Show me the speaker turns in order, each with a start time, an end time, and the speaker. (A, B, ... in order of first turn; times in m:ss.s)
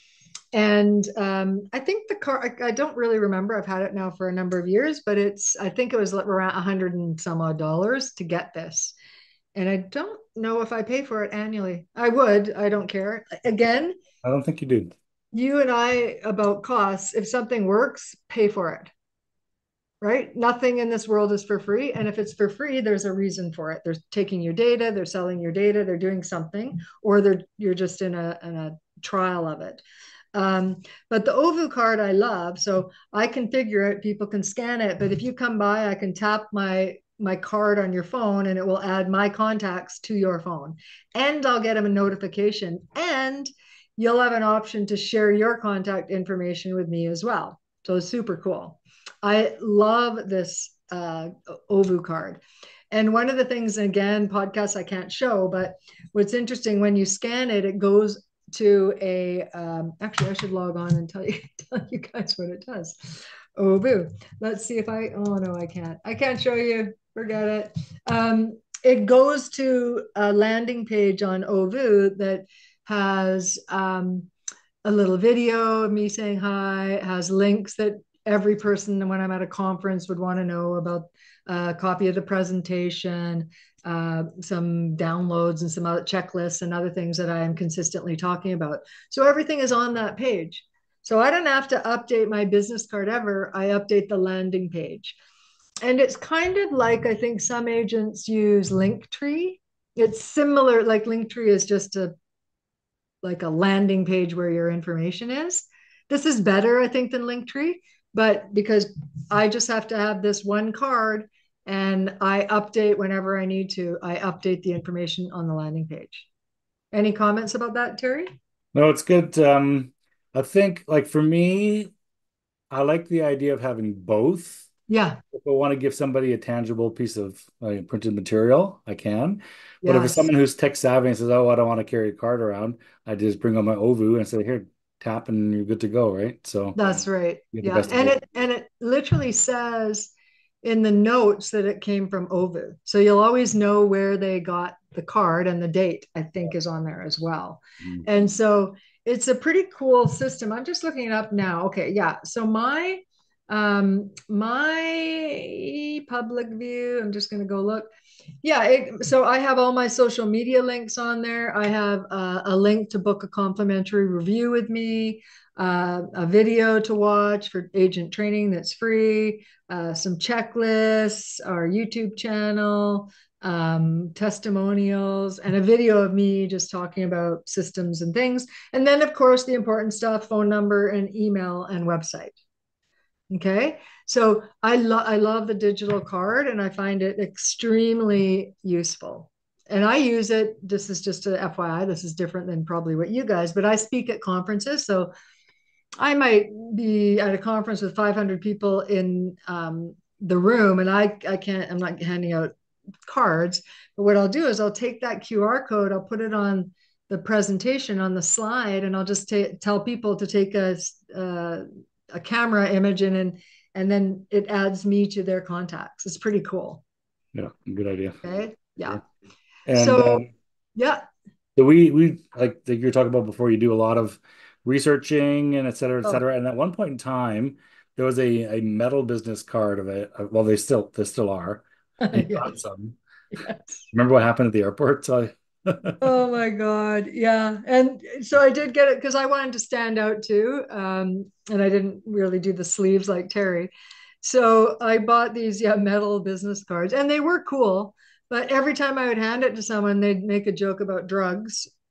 0:00.5-0:09.0 A
0:09.6-0:14.0 A
0:14.2-0:14.9 B
0:15.3-0:18.9 A
0:20.0-0:29.8 A
0:30.3-1:14.3 A
1:14.8-1:35.2 A
1:35.8-1:42.1 A
1:43.2-1:56.3 A
1:56.9-1:58.3 A
1:58.7-2:01.9 B
2:02.7-2:04.7 B
2:04.9-2:05.2 A
2:05.3-2:17.0 B
2:09.8-2:10.3 A
2:16.8-2:37.9 A
2:17.5-2:18.2 B
2:38.4-3:02.4 A
3:03.3-3:15.1 A
3:16.0-3:22.5 A
3:23.1-3:36.8 A
3:37.3-3:38.2 B
3:38.2-3:39.0 A
3:39.7-3:40.3 B
3:39.7-3:41.0 A
3:41.6-3:53.0 B
3:52.0-3:52.5 A
3:53.4-3:53.6 A
3:53.9-3:56.0 B
3:56.0-4:03.7 A
4:04.2-4:11.7 A